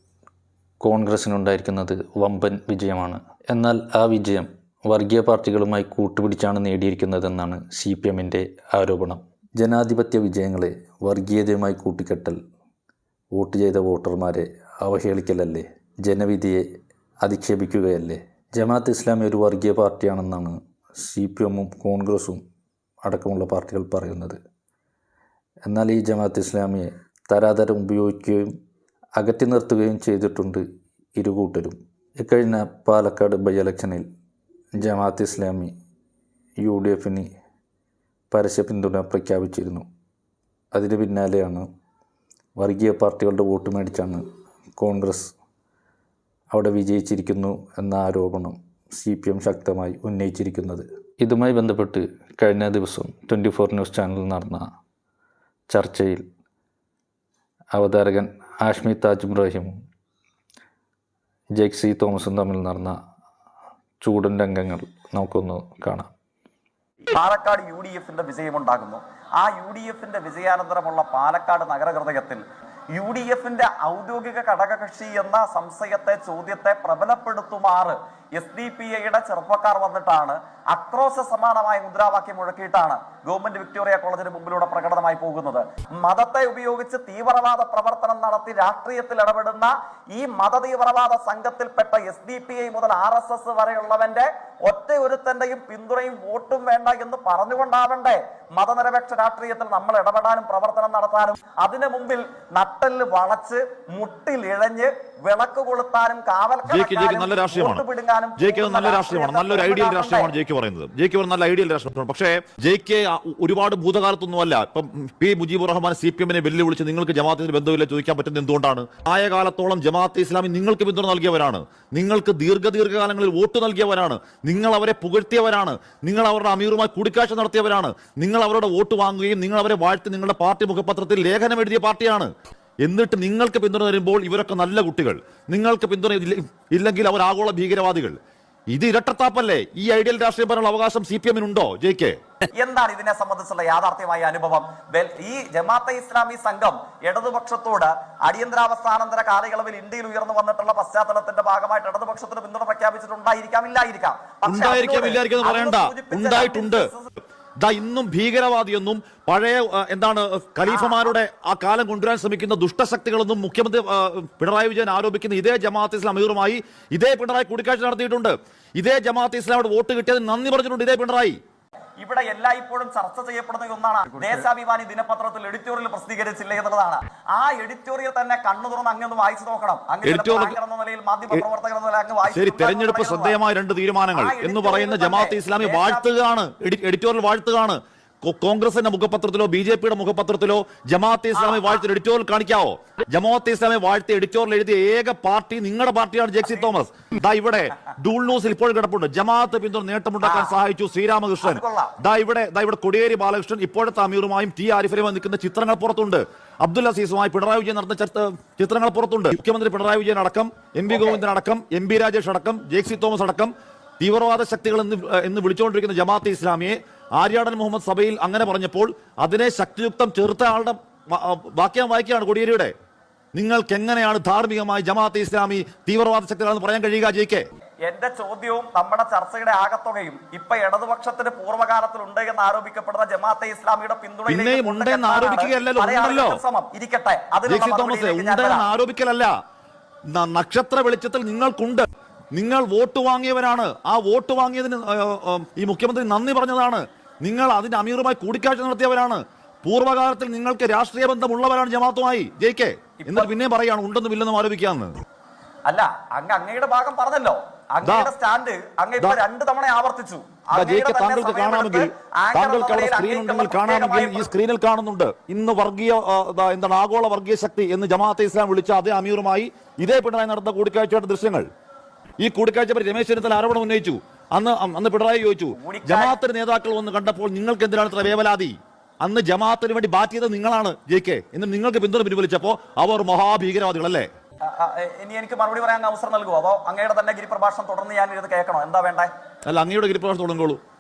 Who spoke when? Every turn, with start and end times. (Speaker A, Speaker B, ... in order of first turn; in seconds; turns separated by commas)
Speaker A: 0.8-12.4, Speaker A: 13.3-16.6, Speaker A: 17.2-22.4, Speaker A: 23.0-24.4, Speaker A: 25.7-28.5, Speaker A: 29.2-30.6, Speaker A: 31.2-34.1, Speaker A: 34.8-35.7, Speaker A: 36.6-37.3, Speaker A: 38.3-39.9, Speaker A: 40.7-41.6, Speaker A: 42.6-44.2, Speaker A: 44.8-45.3, Speaker A: 46.5-54.7, Speaker A: 55.7-56.2, Speaker A: 57.7-59.7, Speaker A: 61.6-63.0, Speaker A: 64.0-66.1, Speaker B: 67.1-110.3, Speaker C: 106.7-107.8, Speaker C: 108.4-132.3, Speaker C: 132.8-138.2, Speaker C: 138.7-142.2, Speaker B: 142.6-157.1, Speaker C: 154.4-156.9, Speaker C: 157.6-171.4, Speaker B: 160.7-161.1, Speaker B: 172.0-183.4, Speaker C: 180.0-180.6, Speaker C: 182.3-222.7, Speaker B: 184.1-186.1, Speaker B: 191.4-191.7, Speaker B: 200.2-200.6, Speaker B: 201.4-202.0, Speaker B: 210.9-211.2, Speaker C: 223.3-227.4, Speaker B: 227.9-238.7, Speaker C: 234.3-236.4, Speaker C: 237.5-239.3, Speaker C: 240.1-255.0, Speaker B: 253.0-253.3, Speaker B: 255.7-264.3, Speaker C: 257.8-258.1, Speaker C: 260.6-271.5, Speaker C: 272.2-284.1, Speaker B: 275.5-276.2, Speaker B: 284.5-289.1, Speaker C: 289.5-290.6